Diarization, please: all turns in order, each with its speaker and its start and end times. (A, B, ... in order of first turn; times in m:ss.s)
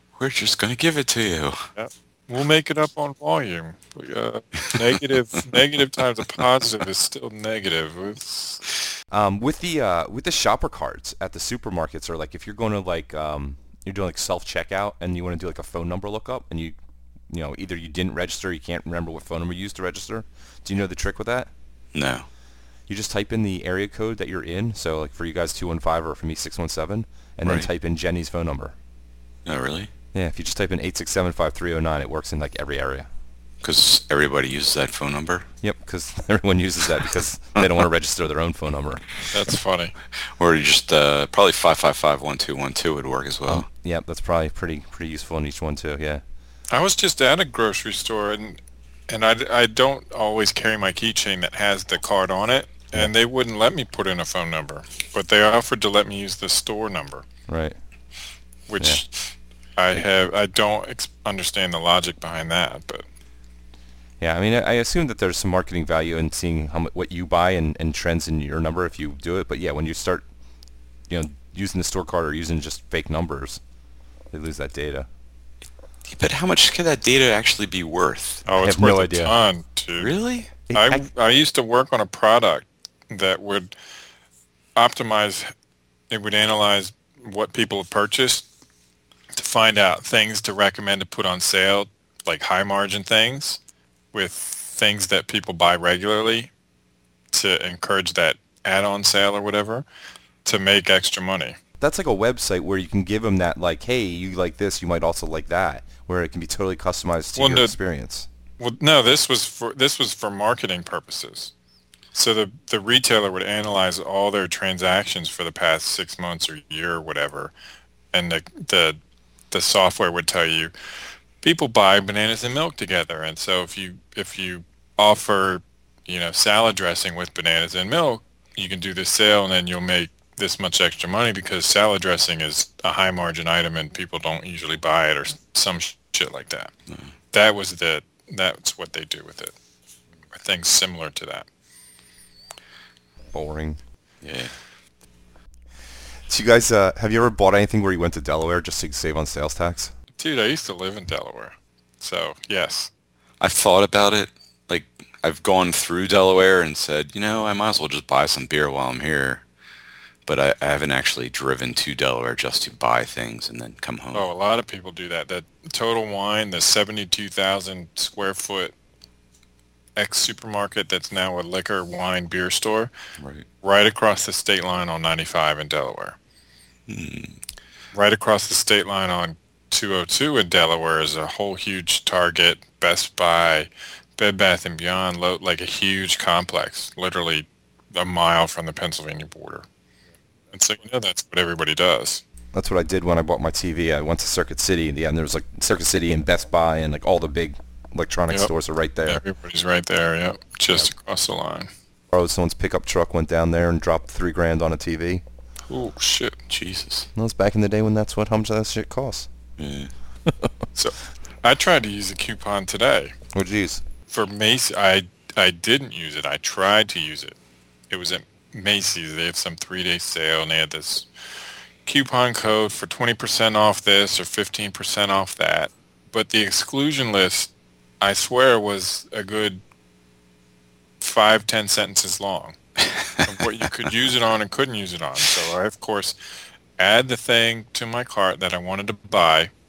0:00.1-0:01.7 A
0:01.7-0:08.6 B
0:09.1-0:16.8 C
0:17.3-0:21.5 C
0:21.9-0:22.2 A
0:22.9-0:28.7 C
0:29.4-0:29.9 A
0:30.1-0:33.1 C
0:33.6-0:35.4 A
0:35.6-0:39.0 C
0:39.3-0:39.9 B
0:40.4-0:43.7 A
0:43.5-0:46.2 C
0:46.7-0:57.2 B
0:57.5-0:57.8 C
0:58.7-0:59.2 B
0:59.8-1:03.0 B
1:04.2-1:10.2 C
1:11.1-1:13.6 C
1:14.3-1:15.1 C
1:16.1-1:18.4 A
1:18.4-1:20.2 B
1:18.6-1:19.4 C
1:20.0-1:20.5 A
1:20.7-1:21.0 C
1:20.7-1:23.7 B
1:24.8-1:25.5 B
1:26.1-1:28.5 B
1:29.3-1:33.6 B
1:34.1-1:36.5 B
1:37.3-1:39.8 B
1:40.4-1:41.6 B
1:41.8-1:48.3 C
1:47.4-1:47.8 B
1:48.6-1:51.5 B
1:52.1-1:57.5 B
1:58.1-1:59.0 B
1:59.5-2:00.7 B
2:01.4-2:16.7 B
2:17.3-2:19.5 B
2:20.3-2:21.5 B
2:23.3-2:23.8 C
2:24.2-2:24.5 A
2:26.3-2:29.9 C
2:30.2-2:32.9 B
2:33.4-2:39.4 A
2:40.3-2:44.3 A
2:44.1-2:48.7 B
2:50.0-2:52.9 B
2:53.2-2:53.4 A
2:53.6-2:56.2 B
2:56.9-2:57.4 A
2:57.9-3:09.6 B
3:10.5-3:12.2 B
3:12.5-3:19.2 C
3:19.0-3:21.7 B
3:22.1-3:25.2 C
3:25.7-3:26.4 B
3:26.5-3:27.1 A
3:27.1-3:29.3 C
3:29.6-3:29.9 A
3:30.7-3:33.1 B
3:33.3-3:33.8 C
3:34.1-3:37.4 B
3:37.9-3:41.1 B
3:41.8-3:49.6 B
3:51.0-3:52.6 B
3:52.9-3:53.2 A
3:53.2-3:56.2 B
3:56.8-3:59.5 B